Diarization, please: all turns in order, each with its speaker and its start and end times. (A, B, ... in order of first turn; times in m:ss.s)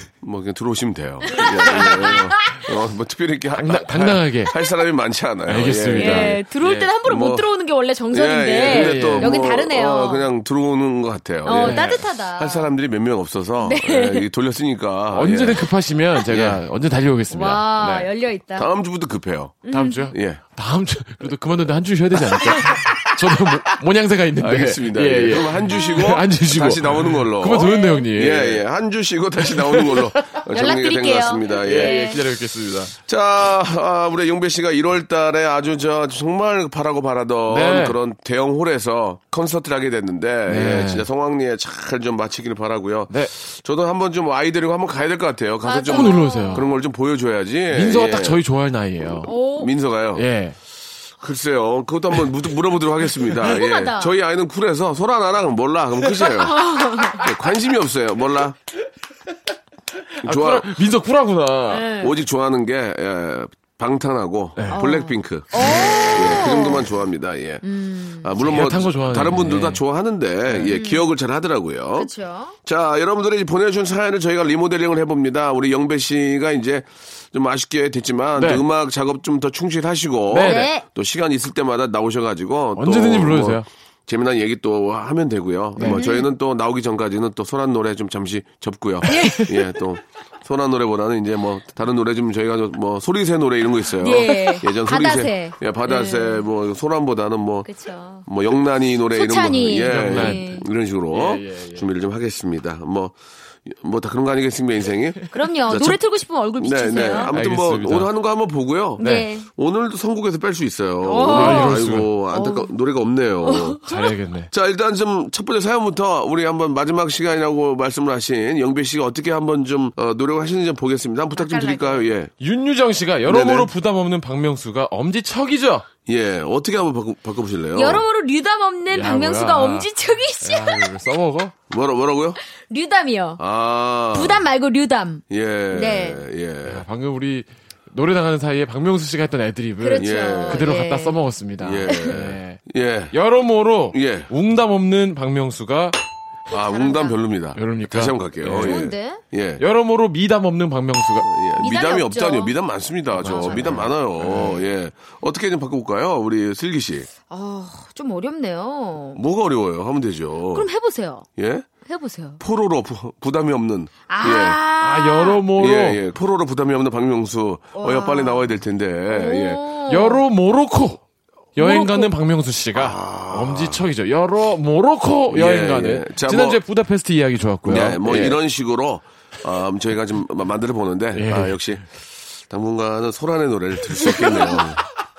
0:00.2-0:06.4 A
0:01.3-0:02.6 B
0:01.7-0:02.2 C
0:03.5-0:04.5 C
0:05.5-0:06.9 C
0:06.0-0:10.2 B
0:07.0-0:07.5 A
0:08.1-0:15.7 A
0:08.6-0:09.5 C
0:11.4-0:12.7 B
0:11.5-0:12.0 C
0:13.6-0:14.2 B
0:15.1-0:18.1 C
0:16.3-0:16.6 A
0:17.3-0:18.7 B
0:18.6-0:20.4 A
0:19.6-0:20.0 B
0:19.7-0:28.6 C
0:24.4-0:32.1 A
0:27.5-0:28.1 B
0:29.4-0:30.4 C
0:30.5-0:32.2 B
0:31.5-0:33.0 C
0:33.1-0:48.4 A
0:37.5-0:38.0 C
0:40.5-0:41.1 C
0:45.6-0:46.6 B
0:45.9-0:46.7 C
0:47.7-0:49.3 C
0:49.0-0:50.2 A
0:49.2-0:49.7 B
0:50.2-0:50.6 C
0:51.2-0:58.6 A
0:53.4-0:54.1 B
0:56.4-0:57.2 B
1:00.2-1:01.9 C
1:00.2-1:00.7 A
1:01.7-1:02.2 B
1:02.0-1:05.5 A
1:04.7-1:06.9 B
1:06.1-1:07.6 A
1:07.6-1:08.3 B
1:08.2-1:12.1 A
1:08.4-1:09.8 C
1:10.5-1:10.8 C
1:10.7-1:11.0 B
1:12.0-1:12.6 B
1:12.6-1:37.7 A
1:18.4-1:18.6 C
1:20.3-1:20.7 C
1:20.4-1:20.8 B
1:22.8-1:23.7 C
1:25.8-1:26.0 C
1:25.8-1:26.3 B
1:29.1-1:29.5 B
1:34.0-1:36.5 B
1:37.6-1:38.3 B
1:38.2-1:46.0 A
1:39.1-1:40.6 B
1:39.9-1:40.4 C
1:41.1-1:41.8 C
1:45.3-1:47.3 B
1:46.6-1:53.8 A
1:47.3-1:48.1 C
1:49.0-1:49.5 B
1:49.0-1:49.3 C
1:51.0-1:51.8 B
1:51.3-1:52.1 C
1:52.3-1:52.7 B
1:53.4-1:54.1 B
1:53.9-1:54.5 C
1:54.5-2:02.3 A
2:01.4-2:02.1 B
2:02.4-2:05.9 C
2:03.3-2:03.7 A
2:06.1-2:08.0 A
2:07.8-2:10.9 B
2:08.9-2:09.9 C
2:10.4-2:11.5 C
2:11.7-2:12.4 A
2:12.6-2:13.4 B
2:13.4-2:14.4 A
2:14.1-2:16.2 B
2:15.3-2:16.8 A
2:16.7-2:26.0 C
2:19.8-2:21.2 B
2:20.0-2:20.7 A
2:21.6-2:23.2 A
2:21.9-2:22.1 B
2:23.9-2:24.3 A
2:26.5-2:29.6 A
2:26.5-2:27.2 B
2:27.6-2:28.9 C
2:28.6-2:29.2 B
2:29.6-2:31.3 C
2:31.2-2:37.1 A
2:31.6-2:32.6 B
2:33.2-2:34.7 C
2:33.3-2:33.9 B
2:37.3-2:39.2 B
2:39.2-2:40.7 A
2:40.5-2:41.3 B
2:41.4-2:41.7 A
2:41.8-2:42.4 B
2:42.4-2:44.6 A
2:44.1-2:45.4 B
2:44.8-2:46.0 C
2:45.6-2:49.6 A
2:47.8-2:48.5 B
2:49.1-2:50.2 B
2:49.9-2:51.0 C
2:51.6-2:58.4 C
2:51.6-2:52.1 B
2:52.7-2:53.8 A
2:55.3-2:56.6 A
2:57.6-3:01.9 A
3:01.1-3:01.8 C
3:02.5-3:04.9 A